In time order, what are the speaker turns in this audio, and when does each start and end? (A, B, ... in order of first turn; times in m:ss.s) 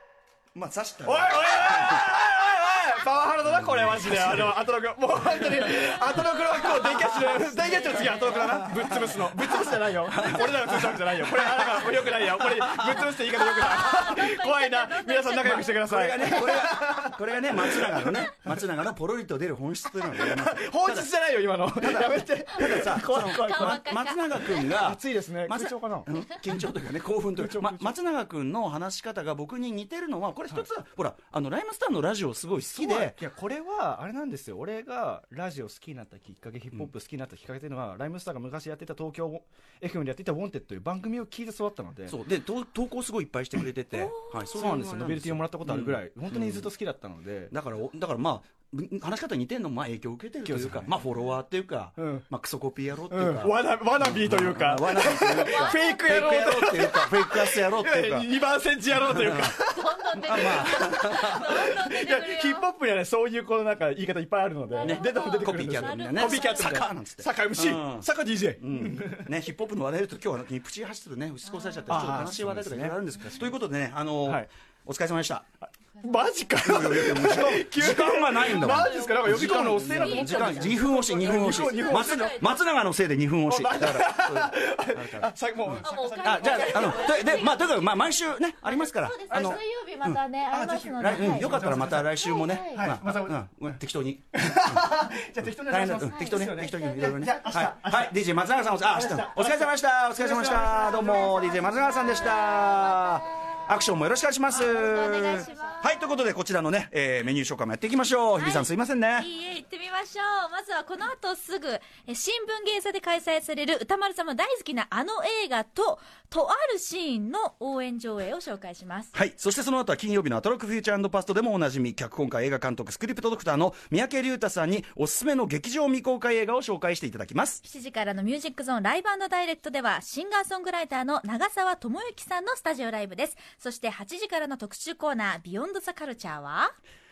0:00.5-0:02.1 A
0:01.0-0:18.3 B
0:03.6-0:04.6 A
0:06.1-0:09.0 C
0:07.0-0:07.2 A
0:09.2-0:13.1 A
0:13.3-0:16.6 C
0:15.8-0:21.1 A
0:20.1-0:26.7 B
0:21.8-0:33.2 A
0:23.1-0:24.7 C
0:27.4-0:27.9 B
0:32.7-0:42.1 B
0:42.1-0:46.7 A
0:43.9-0:44.5 C
0:44.5-0:47.5 B
0:47.5-0:58.3 A
0:50.4-0:50.9 B
0:52.0-0:52.2 B
0:53.1-1:00.0 B
0:55.3-0:56.3 C
0:58.9-0:59.6 A
0:59.6-1:02.6 C
1:00.2-1:01.7 A
1:01.4-1:09.3 B
1:04.7-1:06.8 C
1:04.8-1:08.1 A
1:08.6-1:15.4 A
1:11.4-1:12.4 C
1:11.9-1:13.6 B
1:15.6-1:22.4 B
1:16.0-1:16.3 C
1:16.6-1:30.2 A
1:18.5-1:22.6 C
1:23.4-1:27.5 B
1:25.8-1:28.1 C
1:28.6-1:32.9 C
1:29.3-1:29.6 B
1:30.5-1:32.2 B
1:31.0-1:34.9 A
1:32.7-1:33.4 B
1:34.3-1:38.2 B
1:35.7-1:49.3 A
1:35.9-1:37.4 C
1:38.8-1:41.4 B
1:40.6-1:43.2 C
1:44.5-1:46.0 C
1:48.4-1:59.1 C
1:59.1-2:07.6 A
2:07.6-2:16.7 C